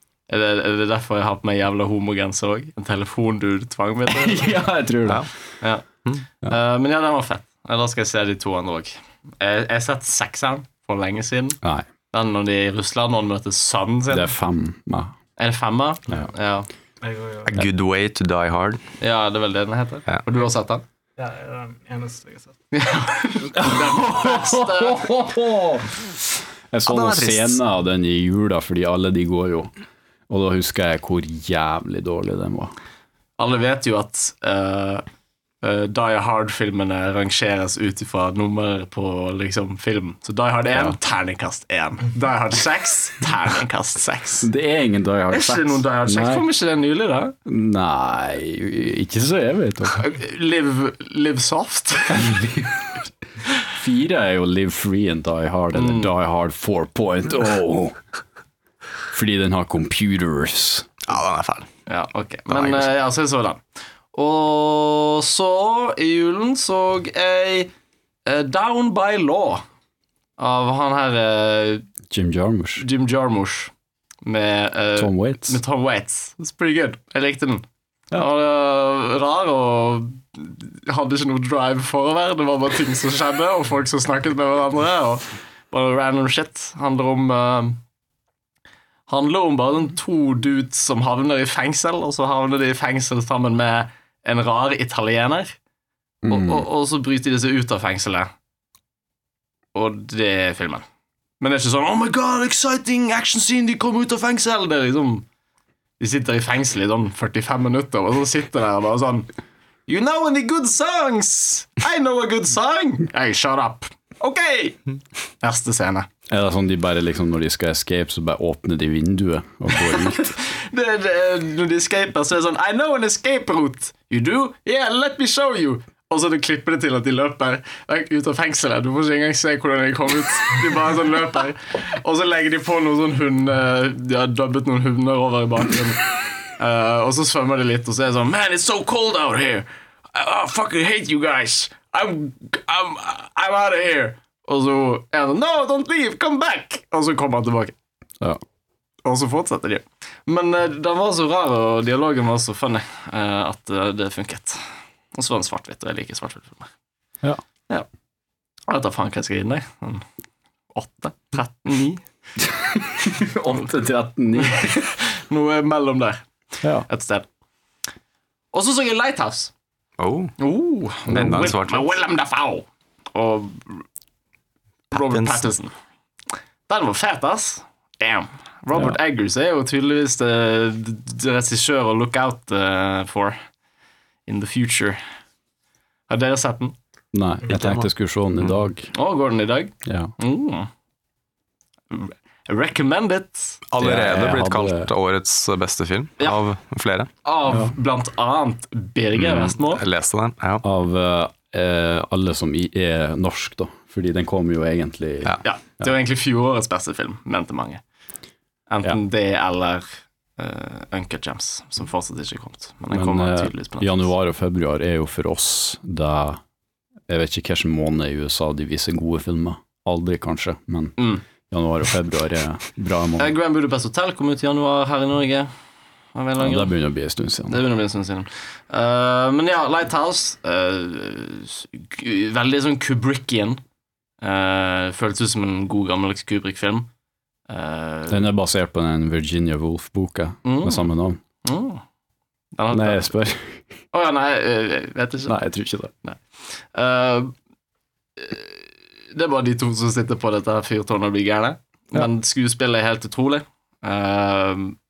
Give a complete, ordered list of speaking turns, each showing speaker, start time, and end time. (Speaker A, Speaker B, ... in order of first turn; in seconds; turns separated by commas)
Speaker A: 0.3-4.5, Speaker B: 4.1-5.3, Speaker A: 5.6-11.6, Speaker A: 12.1-14.3, Speaker B: 14.1-15.1, Speaker A: 15.4-16.7, Speaker C: 17.0-17.6, Speaker D: 17.4-18.8, Speaker A: 19.0-20.8, Speaker C: 21.2-22.6, Speaker A: 22.7-25.1, Speaker B: 23.5-29.7, Speaker D: 26.9-27.5, Speaker B: 30.3-32.7, Speaker A: 33.4-35.0, Speaker A: 35.6-44.5, Speaker B: 44.4-46.5, Speaker A: 45.3-47.4, Speaker B: 47.5-50.0, Speaker A: 50.0-52.3, Speaker B: 52.1-52.9, Speaker B: 53.7-58.0, Speaker A: 55.7-56.1, Speaker B: 59.1-60.9, Speaker D: 61.0-61.7, Speaker A: 61.9-63.6, Speaker D: 62.5-62.9, Speaker A: 64.1-67.7, Speaker A: 68.2-69.6, Speaker A: 70.4-71.8, Speaker B: 72.1-72.8, Speaker A: 72.8-73.7, Speaker A: 74.2-87.8, Speaker B: 75.0-75.6, Speaker A: 89.1-95.5, Speaker B: 96.2-96.7, Speaker A: 96.3-98.3, Speaker A: 99.7-100.8, Speaker A: 101.4-105.2, Speaker A: 106.0-109.3, Speaker A: 109.9-114.8, Speaker A: 115.4-116.1, Speaker B: 116.3-120.3, Speaker A: 120.2-147.7, Speaker A: 149.0-154.6, Speaker A: 155.1-156.7, Speaker A: 158.7-160.0, Speaker A: 160.7-162.0, Speaker B: 162.4-164.8, Speaker A: 164.4-166.2, Speaker A: 166.8-167.3, Speaker A: 168.5-169.5, Speaker D: 170.0-170.3, Speaker A: 170.4-173.8, Speaker D: 171.1-172.0, Speaker B: 171.2-171.4, Speaker A: 174.9-175.7, Speaker D: 174.9-175.4, Speaker A: 176.7-183.4, Speaker A: 184.2-185.0, Speaker A: 186.1-186.7, Speaker B: 187.1-188.9, Speaker D: 187.5-187.9, Speaker A: 188.9-190.7, Speaker B: 189.8-190.1, Speaker A: 191.9-193.6, Speaker D: 193.7-197.1, Speaker B: 193.8-194.9, Speaker A: 197.2-199.8, Speaker B: 197.5-197.7, Speaker D: 199.2-200.6, Speaker B: 200.6-205.9, Speaker A: 205.4-207.8, Speaker A: 208.7-209.8, Speaker A: 210.4-214.1, Speaker B: 212.9-216.4, Speaker B: 217.1-223.3, Speaker A: 221.0-221.2, Speaker A: 223.2-225.5, Speaker A: 226.1-226.7, Speaker B: 226.4-227.6, Speaker A: 227.5-233.6, Speaker A: 234.2-236.9, Speaker A: 237.5-238.3, Speaker B: 238.1-241.2, Speaker A: 240.4-240.9, Speaker A: 241.4-241.8, Speaker A: 242.6-243.1, Speaker B: 242.7-243.6, Speaker A: 243.9-245.3, Speaker B: 245.3-245.9, Speaker A: 246.0-247.3, Speaker A: 248.2-254.8